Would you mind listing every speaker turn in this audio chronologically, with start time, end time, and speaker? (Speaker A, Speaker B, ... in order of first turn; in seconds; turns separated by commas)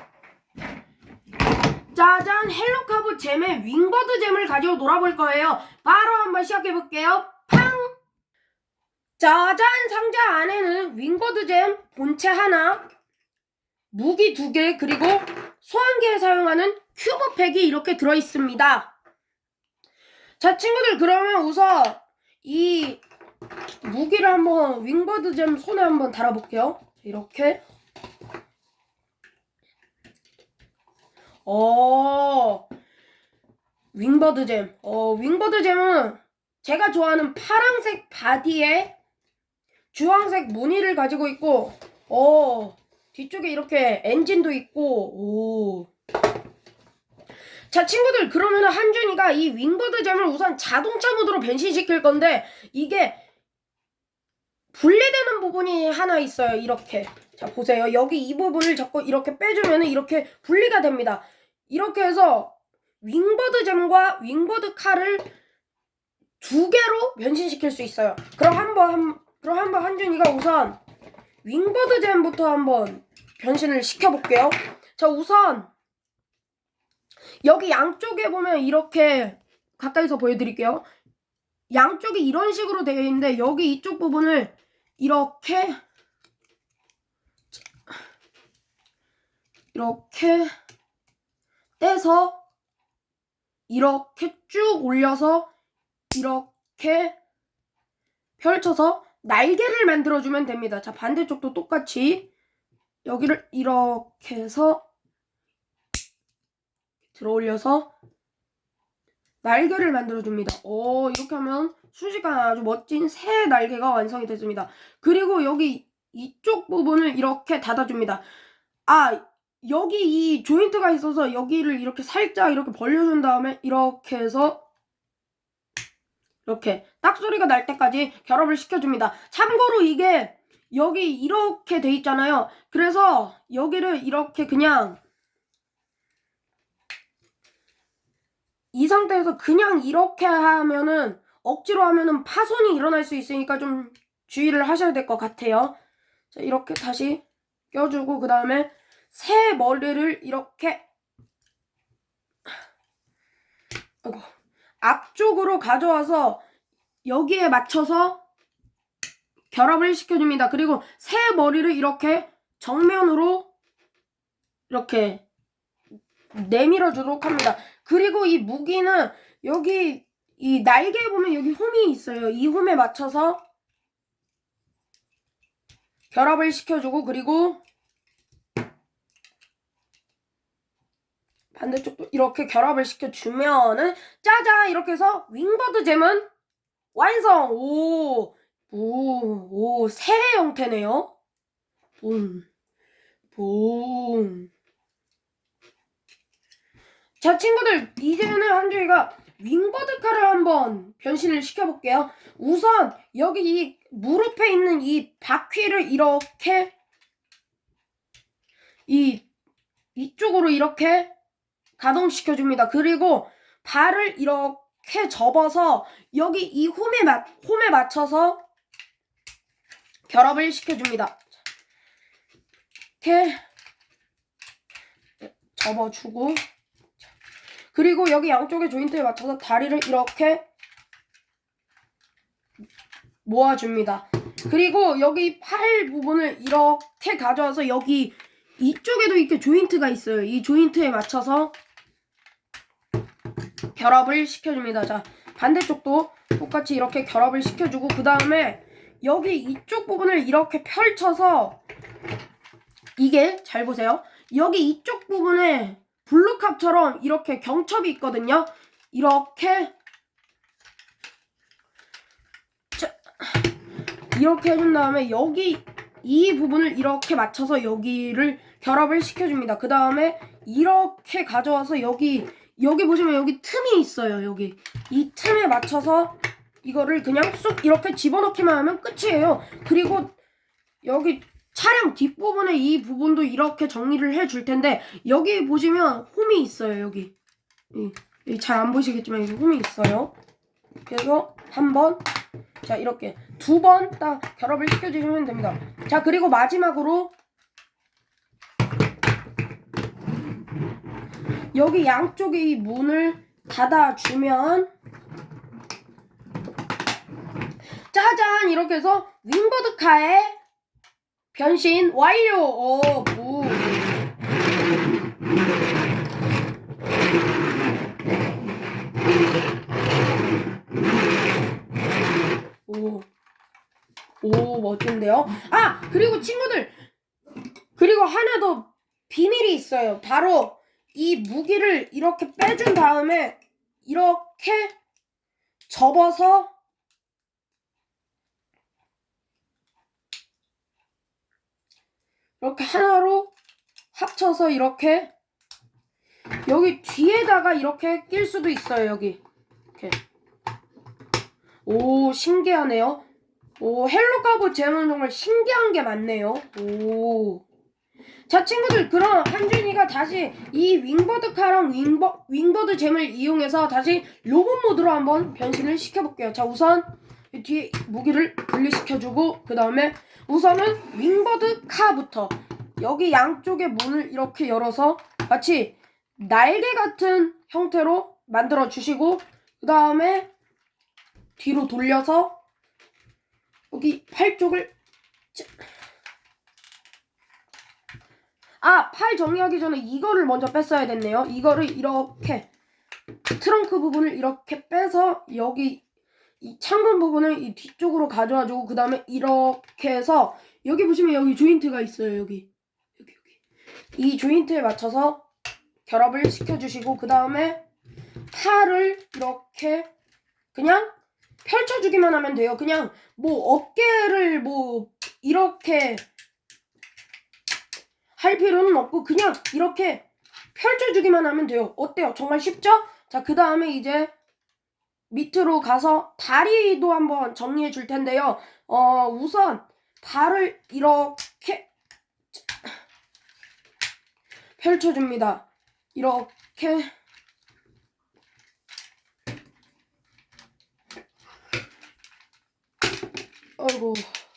Speaker A: 1.9-8.0, Speaker A: 9.2-12.9, Speaker A: 13.9-18.9, Speaker A: 20.4-23.0, Speaker A: 23.8-27.6, Speaker A: 31.5-32.7, Speaker A: 33.9-39.0, Speaker A: 39.9-45.9, Speaker A: 47.7-53.2, Speaker A: 54.7-65.3, Speaker A: 66.4-70.8, Speaker A: 71.4-75.7, Speaker A: 77.4-80.8, Speaker A: 81.7-85.8, Speaker A: 89.7-90.5, Speaker A: 91.8-92.4, Speaker A: 93.7-95.5, Speaker A: 96.1-97.2, Speaker A: 98.4-102.3, Speaker A: 103.0-104.8, Speaker A: 107.1-107.9, Speaker A: 109.4-118.2, Speaker A: 118.9-124.6, Speaker A: 126.5-135.0, Speaker A: 138.7-145.8, Speaker A: 146.3-150.8, Speaker A: 154.0-154.3, Speaker A: 154.8-156.4, Speaker A: 157.1-158.2, Speaker A: 159.5-163.5, Speaker A: 164.7-165.2, Speaker A: 166.3-173.4, Speaker A: 176.1-177.6, Speaker A: 181.5-186.3, Speaker A: 186.9-191.1, Speaker A: 192.0-192.4, Speaker A: 193.3-194.5, Speaker A: 197.2-206.7, Speaker A: 208.9-209.2, Speaker A: 209.9-211.1, Speaker A: 211.8-218.4, Speaker A: 220.1-221.2, Speaker A: 223.0-223.4, Speaker A: 225.2-226.4, Speaker A: 227.7-230.4, Speaker A: 233.2-241.5, Speaker A: 243.8-251.6, Speaker A: 253.0-259.7, Speaker A: 262.8-263.5, Speaker A: 264.1-280.2, Speaker A: 280.8-287.1, Speaker A: 287.7-290.1, Speaker A: 290.9-292.0, Speaker A: 292.6-297.1, Speaker A: 301.5-304.7, Speaker A: 307.9-310.4, Speaker A: 311.3-313.7, Speaker A: 322.7-323.1, Speaker A: 324.2-326.8, Speaker A: 327.8-334.8, Speaker A: 335.7-336.5, Speaker A: 342.4-343.3, Speaker A: 343.9-345.1, Speaker A: 346.5-349.2, Speaker A: 349.8-350.0, Speaker A: 351.6-353.0, Speaker A: 353.6-357.4, Speaker A: 358.3-380.3, Speaker A: 381.4-382.4, Speaker A: 383.7-384.7, Speaker A: 388.6-392.5, Speaker A: 393.4-395.8, Speaker A: 396.4-402.5, Speaker A: 403.0-403.4, Speaker A: 404.0-405.3, Speaker A: 405.9-407.6, Speaker A: 408.3-409.9, Speaker A: 410.5-410.9, Speaker A: 411.4-416.0, Speaker A: 418.2-424.1, Speaker A: 425.1-431.7, Speaker A: 434.6-436.9, Speaker A: 443.6-444.1